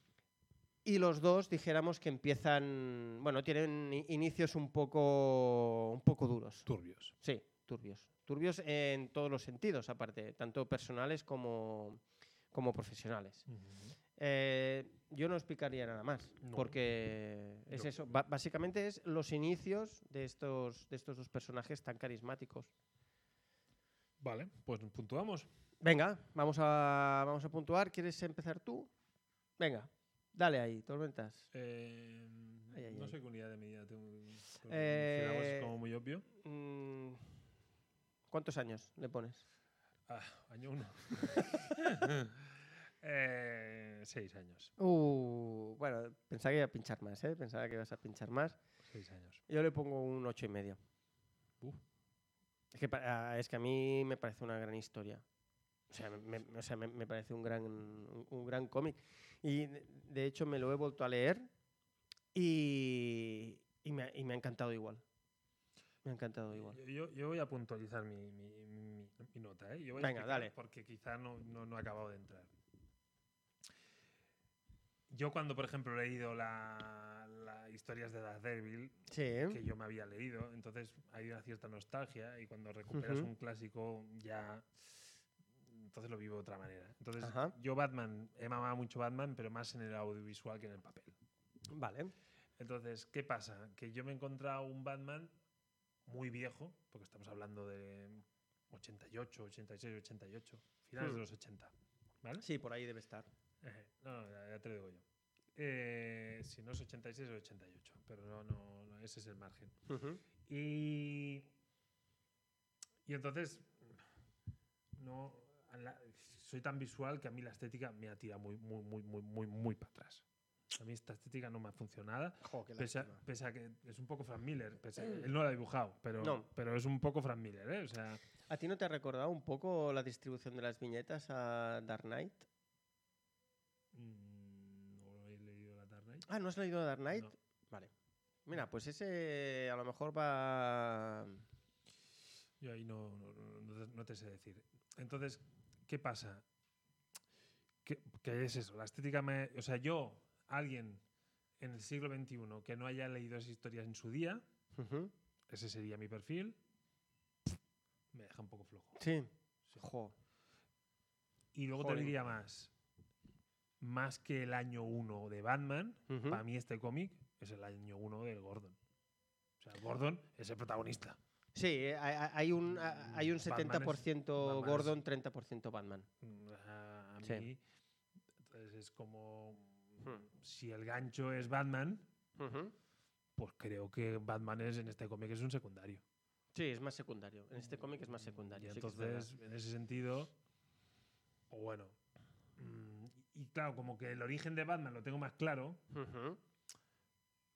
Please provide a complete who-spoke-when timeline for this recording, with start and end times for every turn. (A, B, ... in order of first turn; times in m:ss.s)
0:00.8-0:06.7 A
0:06.7-0:07.1 B
0:07.2-0:13.4 A
0:13.5-0:14.0 B
0:14.2-0:22.7 A
0:16.4-0:16.8 B
0:17.7-0:18.0 B
0:24.2-0:25.5 B
0:25.8-0:28.9 A
0:29.6-0:31.5 A
0:31.5-0:36.2 B
0:32.7-0:33.1 A
0:34.7-0:35.7 A
0:36.4-0:37.2 A
0:38.3-0:39.4 A
0:40.1-0:44.7 B
0:44.8-0:48.6 A
0:48.8-0:49.4 B
0:49.5-0:50.8 A
0:52.7-0:55.2 A
0:55.9-1:01.5 A
1:02.3-1:05.0 A
1:06.0-1:06.8 A
1:06.5-1:12.5 B
1:10.0-1:10.5 A
1:15.1-1:31.2 B
1:19.1-1:19.6 A
1:22.9-1:23.3 A
1:27.2-1:27.5 A
1:31.7-1:32.1 A
1:32.6-1:35.3 B
1:36.0-1:42.4 B
1:42.4-1:43.3 A
1:43.6-1:45.0 B
1:45.5-1:49.8 B
1:49.9-1:50.2 A
1:50.4-1:51.5 B
1:53.0-1:54.0 B
1:55.0-2:08.2 B
2:02.4-2:03.2 A
2:06.2-2:06.4 A
2:08.5-2:12.4 A
2:13.9-2:16.2 B
2:16.2-2:17.9 A
2:18.4-2:21.4 A
2:22.6-2:26.4 B
2:27.8-2:31.0 B
2:31.6-2:34.4 B
2:34.7-2:35.1 A
2:35.5-2:36.6 B
2:38.1-2:39.0 B
2:39.0-2:40.1 A
2:41.5-2:42.7 B
2:41.8-2:42.1 A
2:43.8-2:48.8 B
2:46.1-2:46.4 A
2:49.6-2:51.2 B
2:51.5-2:56.1 A
2:52.7-2:55.0 B
2:56.2-2:57.6 B
2:58.4-3:02.0 B
3:02.4-3:02.7 A
3:03.4-3:06.0 B
3:06.5-3:09.3 A
3:08.0-3:10.3 B
3:11.5-3:12.0 B
3:12.6-3:15.8 B
3:15.9-3:16.4 A